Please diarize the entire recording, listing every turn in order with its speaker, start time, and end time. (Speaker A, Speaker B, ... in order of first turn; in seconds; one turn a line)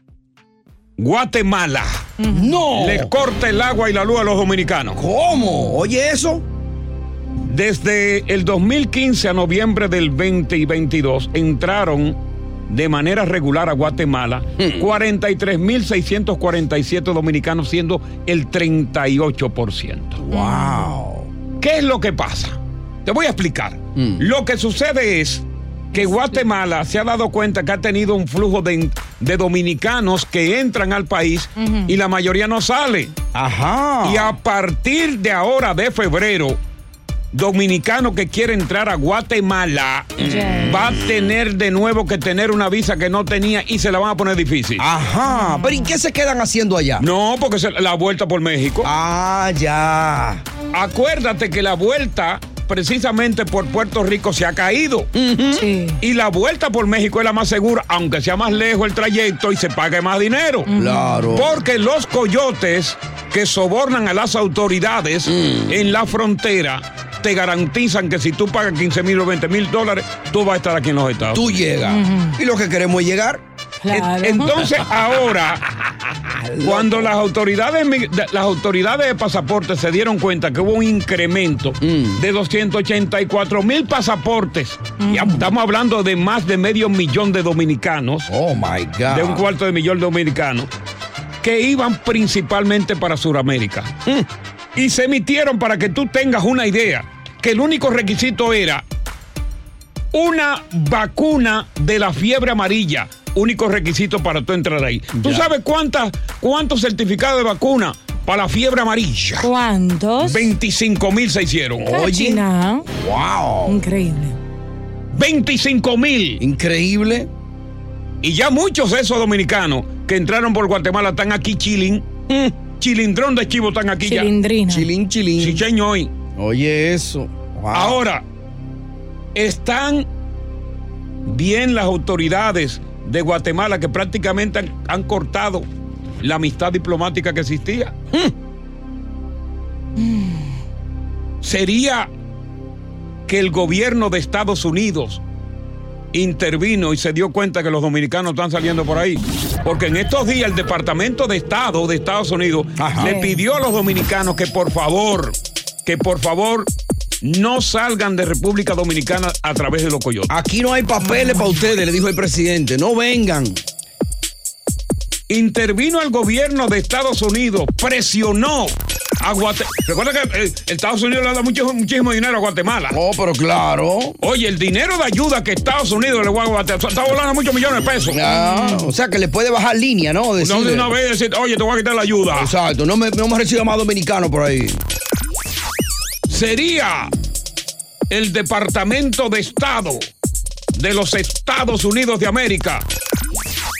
Speaker A: 1.0-2.1
Speaker B: 2.2-2.6
Speaker C: 2.3-3.1
Speaker A: 2.7-5.0
Speaker C: 4.9-6.4
Speaker A: 7.4-20.2
Speaker C: 14.6-14.8
Speaker C: 20.2-21.3
Speaker B: 20.3-20.9
Speaker A: 21.6-33.2
Speaker C: 24.0-24.2
Speaker B: 31.6-32.0
Speaker C: 33.3-34.3
Speaker A: 34.0-36.6
Speaker A: 37.3-44.8
Speaker B: 40.2-40.9
Speaker C: 44.8-47.0
Speaker B: 45.3-45.9
Speaker A: 47.0-48.9
Speaker C: 48.8-50.4
Speaker A: 50.7-55.1
Speaker C: 55.1-55.6
Speaker B: 55.6-56.0
Speaker A: 56.0-60.7
Speaker B: 60.7-61.3
Speaker C: 60.7-61.5
Speaker A: 61.3-71.4
Speaker C: 65.3-65.8
Speaker C: 71.3-74.2
Speaker B: 71.9-72.4
Speaker B: 73.8-74.5
Speaker A: 74.2-75.6
Speaker C: 76.4-77.1
Speaker A: 76.6-88.3
Speaker C: 81.8-82.2
Speaker B: 85.0-85.4
Speaker C: 88.3-89.5
Speaker A: 89.1-90.7
Speaker A: 91.4-94.0
Speaker A: 94.7-98.8
Speaker A: 100.1-109.5
Speaker B: 109.4-110.5
Speaker A: 110.2-111.9
Speaker C: 111.8-112.4
Speaker B: 111.9-112.8
Speaker C: 112.9-113.8
Speaker B: 113.7-114.4
Speaker A: 115.1-116.4
Speaker C: 116.4-117.3
Speaker A: 118.2-124.3
Speaker B: 124.0-124.9
Speaker C: 124.7-125.6
Speaker A: 125.4-126.1
Speaker C: 126.3-128.0
Speaker A: 127.7-128.2
Speaker A: 129.3-130.1
Speaker A: 131.2-135.7
Speaker A: 136.2-137.9
Speaker B: 140.0-140.4
Speaker A: 141.4-142.1
Speaker A: 143.3-145.2
Speaker A: 146.1-160.3
Speaker C: 152.8-153.2
Speaker B: 153.0-153.3
Speaker C: 160.3-163.6
Speaker A: 165.3-173.0
Speaker C: 172.9-174.2
Speaker A: 174.2-178.2
Speaker C: 178.1-180.9
Speaker B: 178.3-178.9
Speaker A: 180.4-182.5
Speaker C: 182.3-184.8
Speaker A: 186.3-187.1
Speaker A: 188.1-190.1
Speaker A: 190.7-192.8